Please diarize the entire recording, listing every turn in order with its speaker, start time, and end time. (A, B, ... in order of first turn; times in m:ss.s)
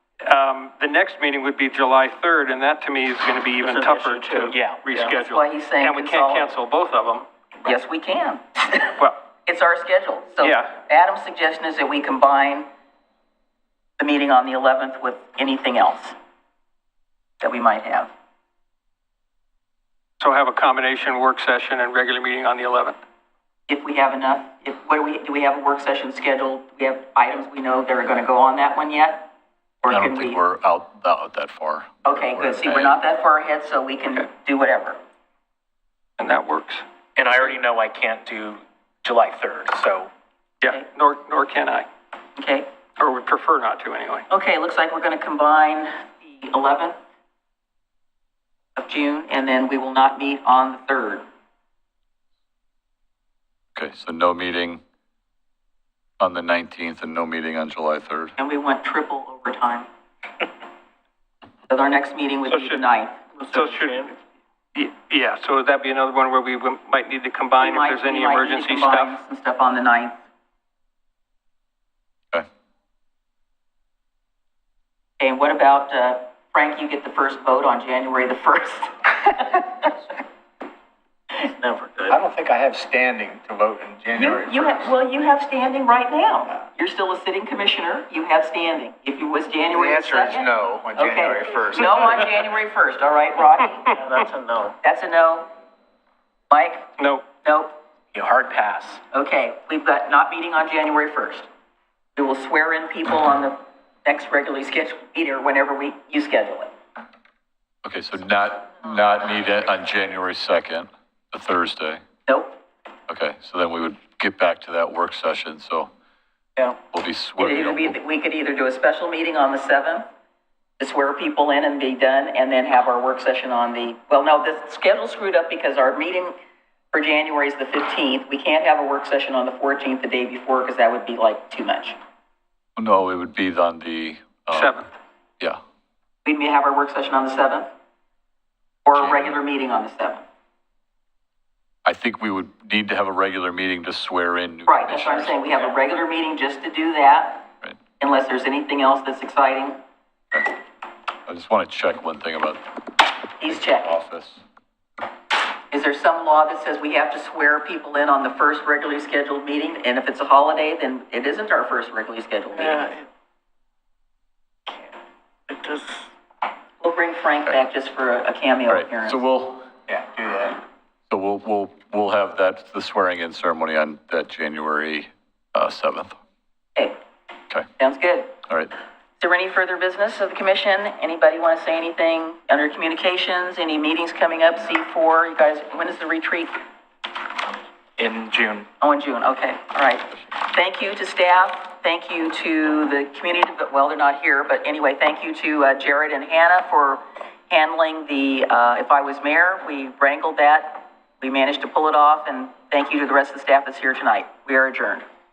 0:00.2-0:07.3 A
0:03.6-0:05.1 B
0:05.0-0:06.5 C
0:07.6-0:08.9 C
0:09.4-0:12.7 C
0:10.4-0:10.7 A
0:14.0-0:16.2 C
0:17.4-0:18.1 C
0:20.2-0:23.0 A
0:23.7-0:29.3 C
0:29.8-0:30.4 C
0:29.9-0:33.0 D
0:32.0-0:35.0 C
0:36.2-0:36.8 A
0:37.2-0:40.1 E
0:40.6-0:41.9 A
0:42.4-0:42.7 C
0:43.0-0:44.3 A
0:44.3-0:47.0 C
0:48.8-0:51.2 C
0:53.8-0:54.8 D
0:56.2-0:58.4 D
0:58.4-0:59.9 C
1:01.7-1:03.6 C
1:02.5-1:02.8 A
1:03.5-1:04.0 A
1:03.5-1:04.2 B
1:04.8-1:09.2 A
1:07.6-1:10.2 C
1:15.2-1:19.9 C
1:21.4-1:22.2 B
1:22.1-1:24.9 F
1:24.1-1:33.9 C
1:29.7-1:32.3 F
1:34.0-1:34.8 B
1:34.8-1:35.5 C
1:36.5-1:36.9 C
1:37.0-1:37.2 A
1:37.4-1:37.8 C
1:38.1-1:39.0 E
1:39.1-1:41.5 C
1:42.2-1:46.7 C
1:47.8-1:52.0 D
1:52.3-1:52.6 C
1:53.1-1:55.9 D
1:56.9-1:58.0 D
1:57.4-2:00.0 C
2:00.8-2:06.3 C
2:06.9-2:12.0 C
2:12.8-2:14.8 D
2:14.5-2:14.9 A
2:16.2-2:17.7 C
2:18.9-2:20.2 C
2:19.0-2:19.4 D
2:21.8-2:25.4 D
2:24.7-2:27.5 C
2:28.0-2:29.8 C
2:31.3-2:32.7 D
2:33.4-2:34.0 C
2:33.4-2:34.4 D
2:35.7-2:42.9 C
2:42.6-2:43.0 B
2:45.5-2:46.1 B
2:46.8-2:49.2 C
2:48.7-2:49.7 D
2:49.9-2:50.6 F
2:51.1-2:56.2 D
2:57.8-2:58.4 C
2:58.5-2:58.7 D
2:59.2-3:06.6 C
3:08.0-3:08.7 E
3:08.8-3:25.0 C